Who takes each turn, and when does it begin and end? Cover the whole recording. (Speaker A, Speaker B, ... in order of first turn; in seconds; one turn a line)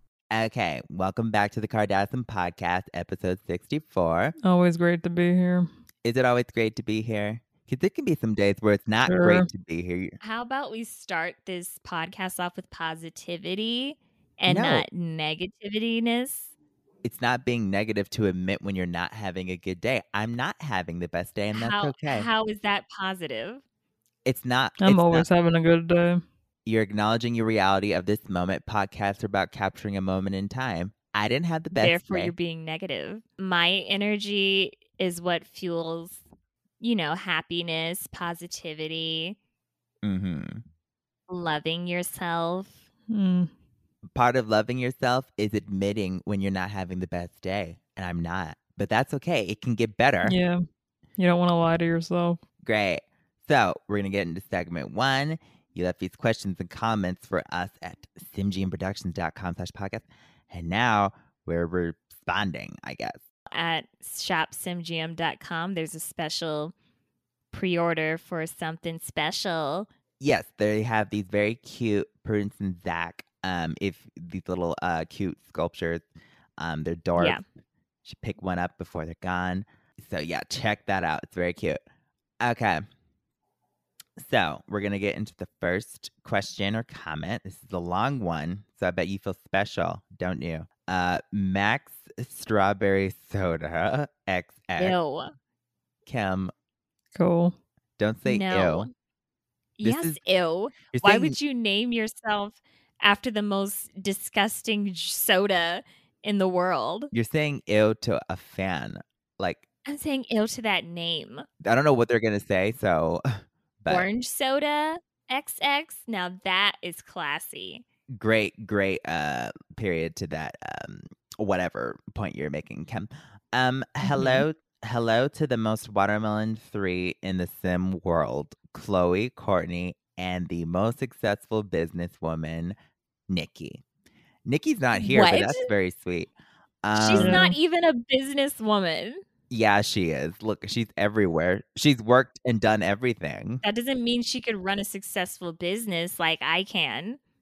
Speaker A: 0.3-4.3
Speaker B: 4.4-5.7
Speaker A: 6.0-10.2
Speaker B: 9.1-9.4
Speaker C: 10.2-16.5
Speaker A: 14.5-14.8
Speaker A: 17.0-22.3
Speaker C: 21.5-23.6
Speaker A: 24.2-25.3
Speaker B: 24.8-26.2
Speaker A: 26.6-32.3
Speaker C: 31.7-36.2
Speaker C: 36.8-39.4
Speaker A: 40.0-40.6
Speaker C: 41.3-42.8
Speaker B: 43.1-43.5
Speaker A: 44.1-50.4
Speaker B: 50.2-50.6
Speaker B: 51.2-52.4
Speaker A: 52.6-63.2
Speaker C: 63.5-66.7
Speaker C: 67.5-69.9
Speaker A: 70.2-76.0
Speaker A: 76.6-77.4
Speaker C: 77.2-77.4
Speaker A: 78.0-81.8
Speaker A: 82.4-82.8
Speaker A: 84.2-95.0
Speaker C: 94.8-95.3
Speaker A: 96.0-96.5
Speaker B: 97.1-97.5
Speaker A: 98.0-98.9
Speaker C: 98.2-98.9
Speaker C: 99.8-107.1
Speaker A: 99.8-100.2
Speaker A: 100.9-101.4
Speaker A: 107.1-109.6
Speaker C: 109.9-111.5
Speaker A: 111.6-113.3
Speaker A: 113.8-114.1
Speaker C: 113.9-117.8
Speaker A: 118.1-132.8
Speaker C: 124.0-124.4
Speaker A: 133.3-133.8
Speaker A: 134.4-136.3
Speaker C: 134.9-135.7
Speaker A: 136.8-137.4
Speaker C: 136.9-139.2
Speaker B: 137.2-137.6
Speaker A: 139.5-143.6
Speaker C: 143.6-147.2